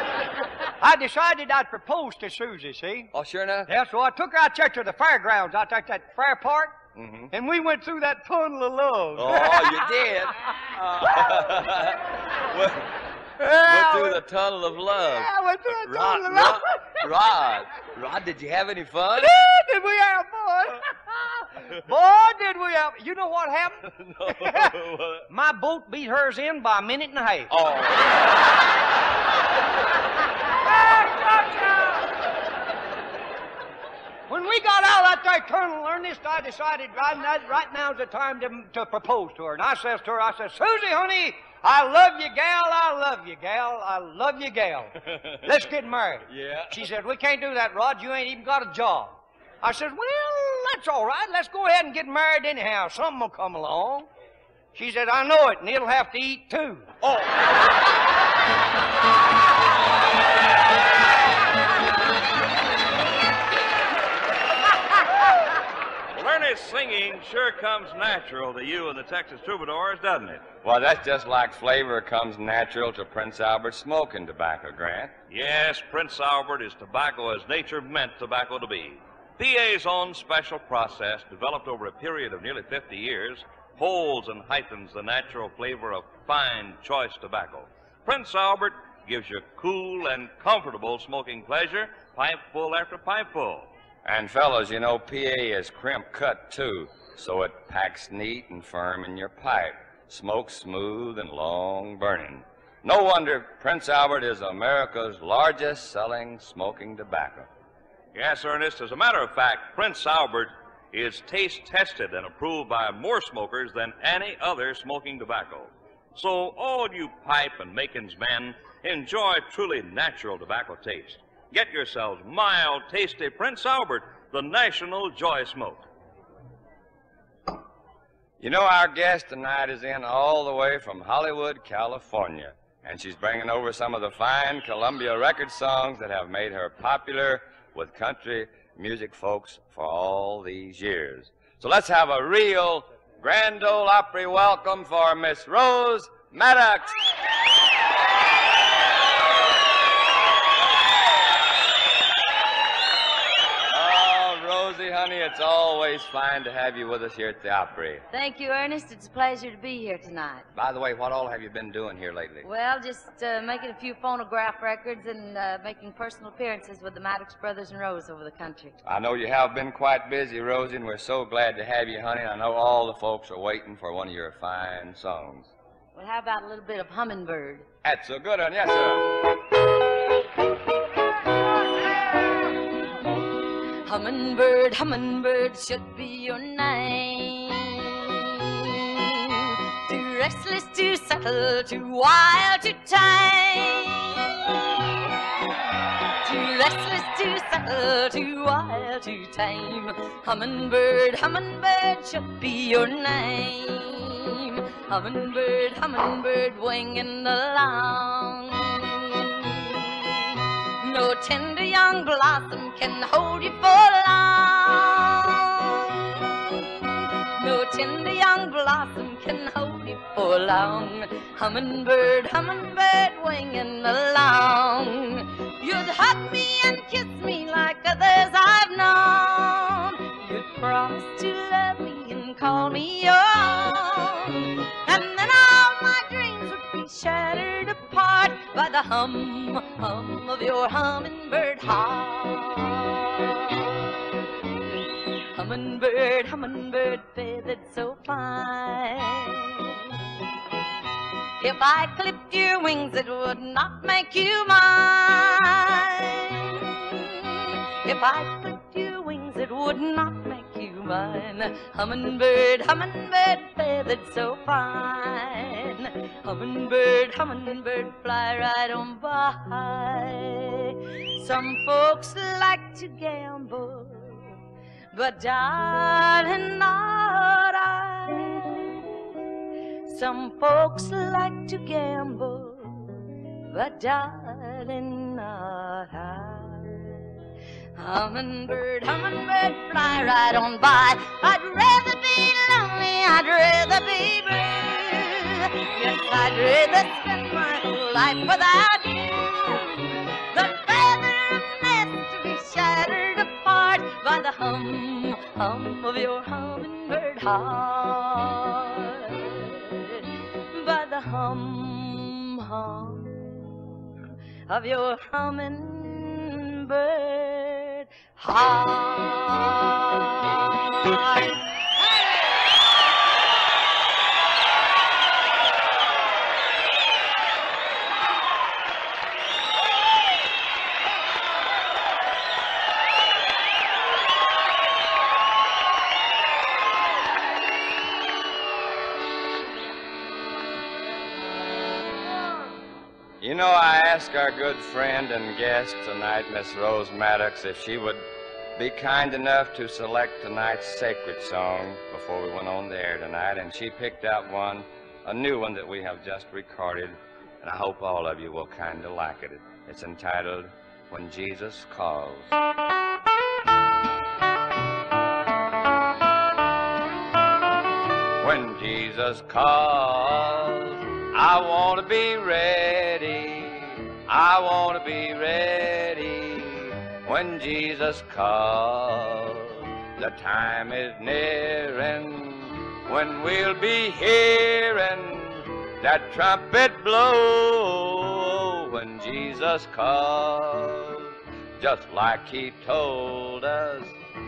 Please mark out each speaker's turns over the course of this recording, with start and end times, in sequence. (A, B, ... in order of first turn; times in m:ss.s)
0:00.8-0:03.1 A
0:03.1-0:03.7 B
0:03.7-0:06.8 A
0:07.0-0:07.3 B
0:07.3-0:09.9 A
0:09.2-0:19.3 B
0:11.0-0:11.4 A
0:13.6-0:14.2 A
0:15.0-0:17.0 A
0:19.2-0:24.7 A
0:23.9-0:25.3 B
0:25.3-0:27.5 A
0:27.5-0:28.2 B
0:30.7-0:32.1 A
0:34.3-0:54.1 A
0:45.1-0:45.4 B
0:46.3-0:46.9 B
0:54.7-0:56.9 A
1:06.1-1:10.5 C
1:10.6-1:15.1 B
1:15.3-1:33.7 C
1:34.0-1:47.5 B
1:48.1-2:05.8 C
2:08.4-2:27.0 B
2:33.7-2:38.0 B
2:38.1-2:40.4 D
2:40.6-2:42.5 B
2:42.4-2:48.8 D
2:48.8-2:55.5 B
2:56.0-2:57.7 D
2:57.8-2:59.1 B
3:03.9-3:15.0 D
3:16.2-3:30.2 D
3:30.8-4:03.8 D
4:05.4-4:09.7 D
4:11.4-4:34.4 D
4:34.9-4:38.8 D
4:39.8-4:47.0 D
4:47.8-5:13.6 D
5:14.5-5:20.5 D
5:43.2-5:48.0 B
5:48.6-6:02.4 B
6:08.2-6:34.0 B